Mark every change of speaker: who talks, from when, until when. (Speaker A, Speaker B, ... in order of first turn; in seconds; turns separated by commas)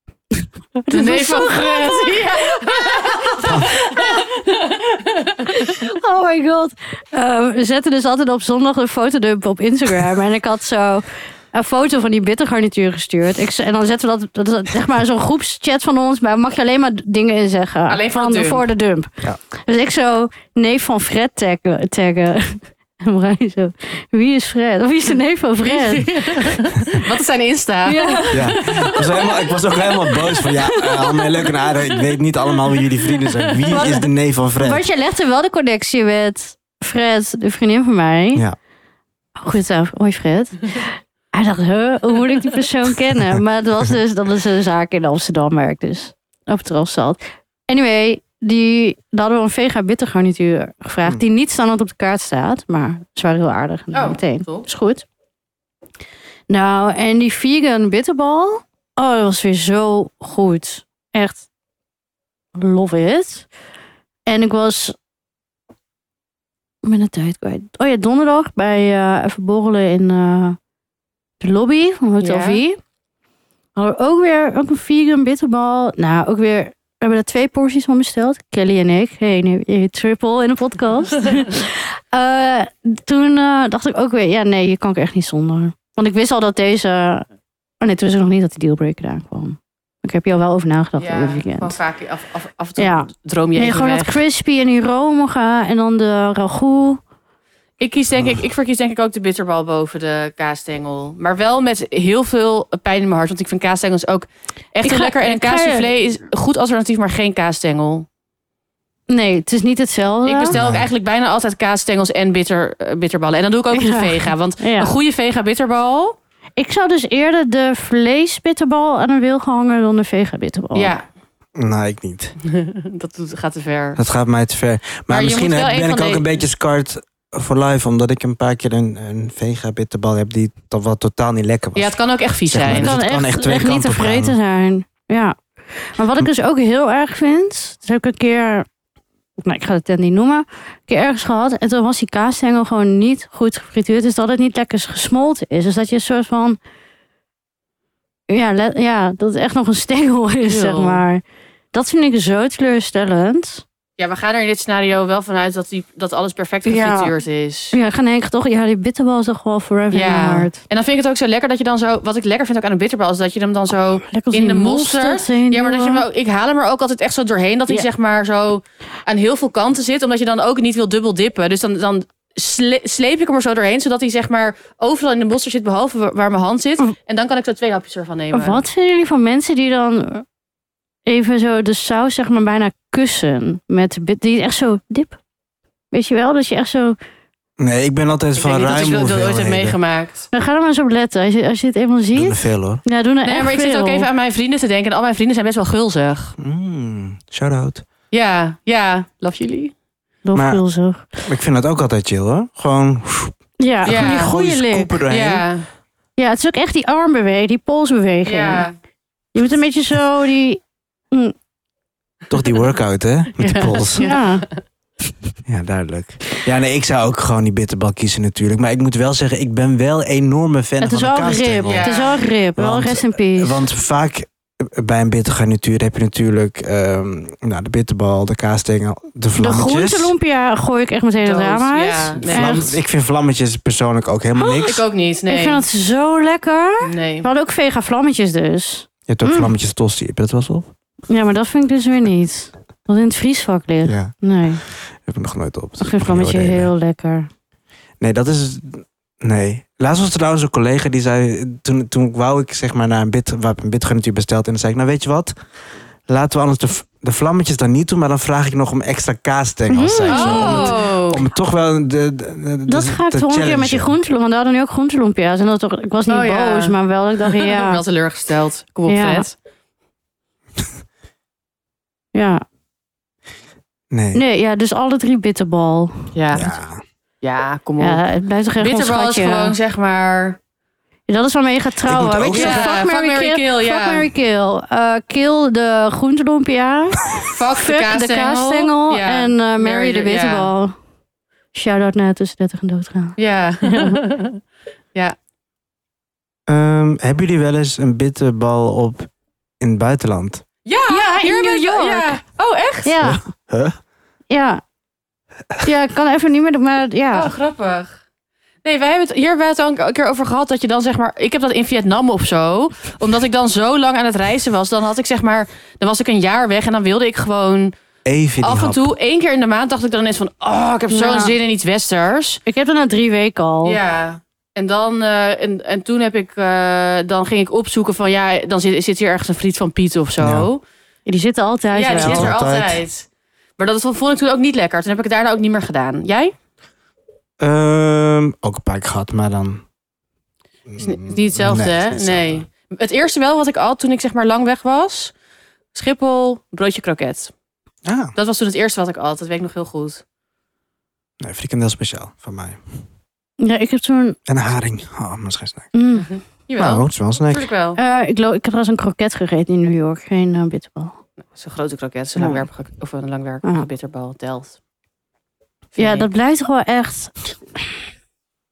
Speaker A: 0.3-4.5, Speaker B: 0.9-5.8, Speaker C: 3.5-3.7, Speaker A: 5.4-19.1, Speaker B: 17.9-18.7, Speaker A: 19.7-26.6, Speaker B: 25.6-29.4, Speaker A: 27.9-29.2, Speaker C: 28.3-34.8, Speaker A: 29.8-31.6, Speaker B: 33.2-34.0, Speaker A: 33.7-34.0, Speaker A: 34.6-38.4, Speaker A: 39.4-55.1, Speaker B: 53.9-54.7, Speaker A: 56.5-61.5, Speaker A: 62.5-63.5, Speaker A: 64.3-65.0, Speaker A: 66.8-70.6, Speaker A: 71.4-72.8, Speaker B: 72.2-72.6, Speaker A: 73.8-87.3, Speaker A: 87.8-91.8, Speaker B: 91.0-94.2, Speaker A: 92.8-97.0, Speaker B: 97.8-108.1, Speaker A: 104.8-105.9, Speaker A: 109.1-110.6, Speaker B: 110.3-116.2, Speaker C: 110.5-110.9, Speaker A: 113.7-115.0, Speaker A: 116.6-120.9, Speaker B: 120.7-121.0, Speaker C: 121.6-122.4, Speaker B: 122.4-124.0, Speaker C: 124.0-134.4, Speaker B: 125.1-126.3, Speaker B: 131.8-133.0, Speaker A: 132.7-138.7, Speaker A: 139.4-146.6, Speaker A: 148.3-151.2, Speaker B: 150.4-151.0, Speaker A: 151.7-153.6, Speaker B: 154.0-157.8, Speaker A: 156.7-157.1, Speaker A: 157.7-160.6, Speaker B: 159.9-178.6, Speaker A: 164.1-166.0, Speaker A: 178.3-180.2, Speaker A: 181.1-185.2, Speaker A: 185.9-187.0, Speaker C: 187.6-189.8, Speaker B: 188.4-190.3, Speaker A: 190.3-194.1, Speaker C: 192.2-192.8, Speaker B: 193.2-196.3, Speaker C: 196.4-197.8, Speaker B: 198.1-199.7, Speaker A: 200.2-201.2, Speaker C: 200.3-200.6, Speaker C: 201.3-205.5, Speaker A: 203.6-205.0, Speaker B: 203.8-204.3, Speaker B: 205.1-205.7, Speaker A: 206.2-208.7, Speaker B: 208.2-208.8, Speaker A: 209.3-211.3, Speaker C: 212.3-214.0, Speaker B: 213.5-214.6, Speaker A: 214.0-214.5, Speaker C: 215.5-222.0, Speaker A: 220.8-223.6, Speaker B: 221.7-222.2, Speaker C: 222.6-230.2, Speaker A: 229.4-232.7, Speaker B: 231.2-232.7, Speaker C: 232.2-234.8, Speaker A: 234.4-234.7, Speaker B: 234.7-235.6, Speaker A: 235.3-239.5, Speaker B: 236.8-237.3, Speaker C: 239.1-240.7, Speaker A: 241.1-244.6, Speaker C: 243.8-244.1, Speaker C: 244.7-246.7, Speaker A: 245.8-247.3, Speaker C: 248.0-255.3, Speaker C: 256.1-263.9, Speaker A: 259.7-260.8, Speaker B: 260.1-261.2, Speaker A: 262.7-267.8, Speaker B: 266.1-269.3, Speaker A: 268.9-269.3, Speaker A: 272.1-272.4, Speaker C: 273.9-274.2, Speaker A: 274.1-276.1, Speaker B: 276.1-276.5, Speaker C: 276.3-276.8, Speaker B: 277.2-278.0, Speaker A: 277.8-279.6, Speaker B: 278.6-280.4, Speaker A: 281.1-290.8, Speaker C: 281.9-282.8, Speaker B: 282.3-284.1, Speaker B: 287.2-290.5, Speaker A: 291.5-294.0, Speaker B: 293.2-294.4, Speaker C: 296.5-299.1, Speaker C: 299.6-300.4, Speaker B: 300.7-302.9, Speaker A: 300.9-302.2, Speaker A: 302.8-303.2, Speaker C: 303.0-303.8, Speaker A: 304.3-304.6, Speaker A: 305.6-307.3, Speaker B: 307.1-308.0, Speaker B: 308.6-317.7, Speaker C: 318.1-318.9, Speaker B: 318.4-322.4, Speaker A: 320.9-321.4, Speaker A: 322.5-323.8, Speaker B: 323.6-330.6, Speaker C: 330.2-330.5, Speaker A: 331.1-332.3, Speaker B: 331.7-336.3, Speaker C: 331.9-332.8, Speaker C: 337.4-339.6, Speaker C: 340.7-342.4, Speaker B: 340.8-345.1, Speaker B: 345.7-347.3, Speaker C: 347.9-348.1, Speaker B: 348.2-350.0, Speaker C: 351.2-352.6, Speaker A: 353.4-354.2, Speaker C: 354.3-355.7, Speaker A: 355.7-356.1, Speaker B: 355.9-357.8, Speaker C: 356.6-357.5, Speaker A: 357.8-361.0, Speaker B: 361.3-364.6, Speaker A: 362.2-362.4, Speaker B: 365.8-366.1, Speaker A: 365.8-367.6